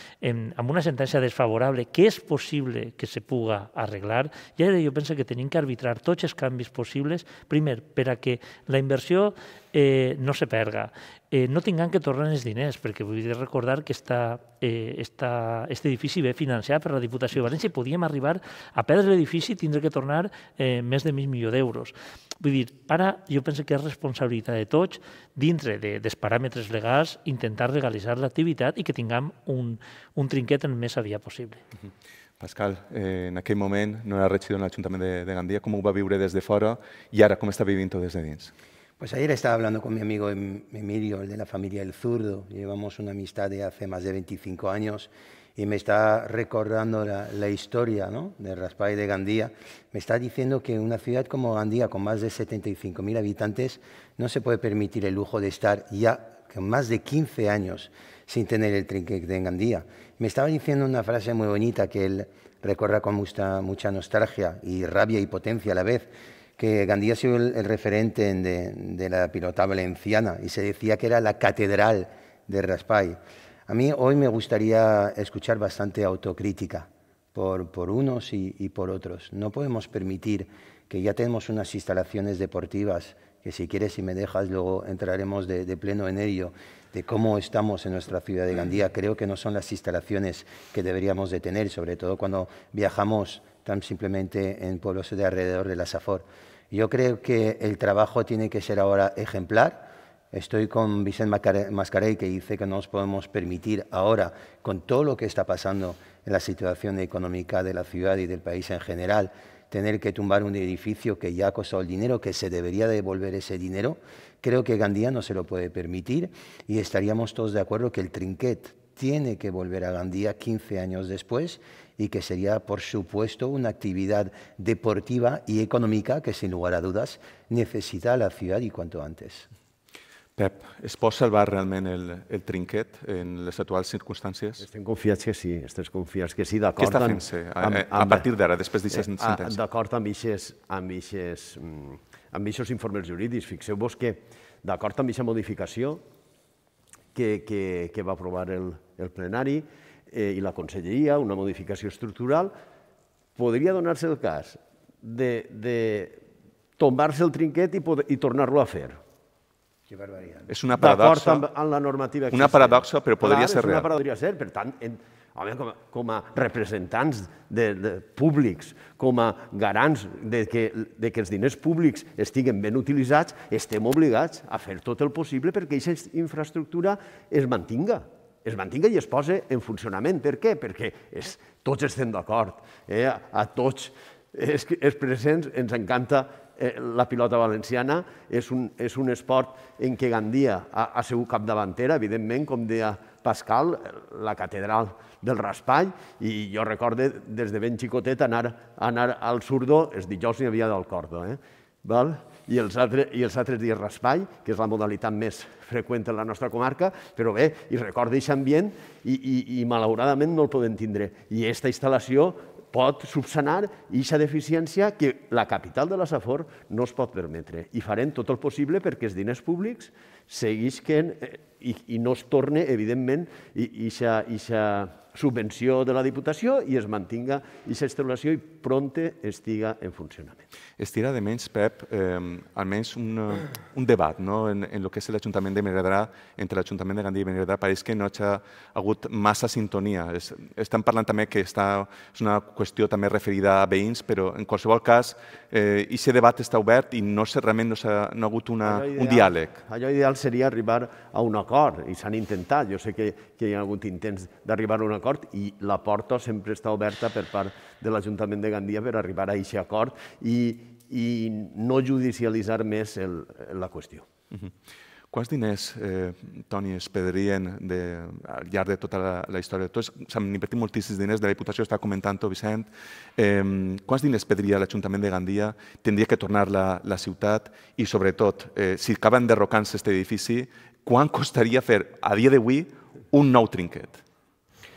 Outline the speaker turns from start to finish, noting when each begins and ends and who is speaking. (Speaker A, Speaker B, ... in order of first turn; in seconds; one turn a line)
Speaker A: 0.2-31.6
Speaker B: 32.4-38.5
Speaker C: 39.0-129.5
Speaker B: 130.3-134.6
Speaker D: 134.6-138.2
Speaker B: 136.8-139.6
Speaker D: 138.9-146.0
Speaker D: 147.1-152.5
Speaker D: 153.3-156.2
Speaker D: 156.8-159.0
Speaker C: 159.9-160.5
Speaker B: 160.5-161.4
Speaker D: 160.8-230.4
Speaker B: 162.3-163.9
Speaker B: 230.8-249.6
Speaker D: 248.6-264.1
Speaker B: 265.1-284.0